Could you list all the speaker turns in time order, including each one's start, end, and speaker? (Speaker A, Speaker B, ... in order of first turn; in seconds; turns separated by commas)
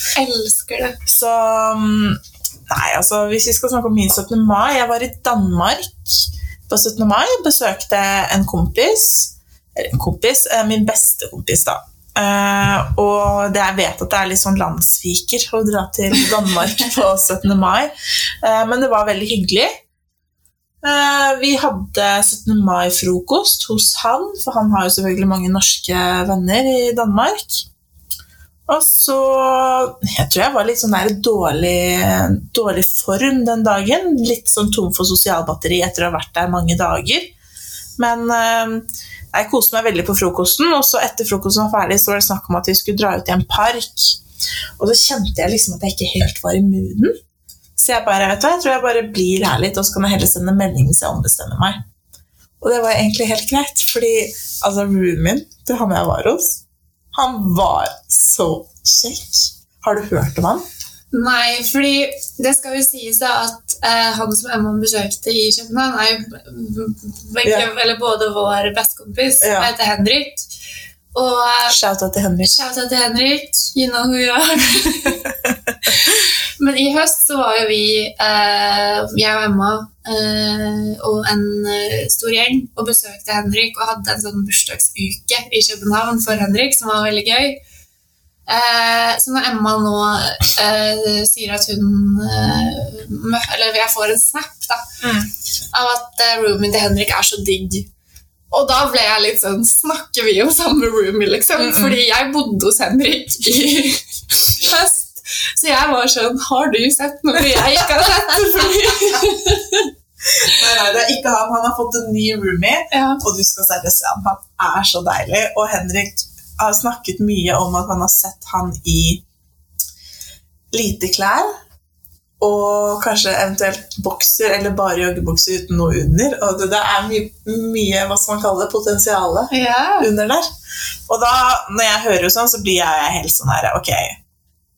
Speaker A: 0.1-1.0, Speaker B: 1.1-17.9, Speaker B: 18.4-19.7, Speaker B: 20.8-27.7, Speaker B: 28.7-37.3, Speaker B: 38.0-44.2, Speaker B: 44.8-47.1, Speaker B: 47.8-51.8, Speaker B: 52.6-56.6, Speaker B: 57.1-60.6, Speaker A: 61.1-70.5, Speaker B: 69.4-69.7, Speaker A: 71.1-71.8, Speaker B: 71.7-72.5, Speaker A: 72.4-75.3, Speaker B: 75.4-75.7, Speaker A: 75.8-87.6, Speaker A: 88.5-94.8, Speaker B: 95.0-95.3, Speaker A: 95.7-97.9, Speaker A: 98.5-109.9, Speaker B: 101.6-102.0, Speaker B: 110.4-119.2, Speaker A: 112.9-113.2, Speaker B: 120.7-121.5, Speaker B: 122.4-130.5, Speaker A: 129.5-130.1, Speaker B: 131.1-134.2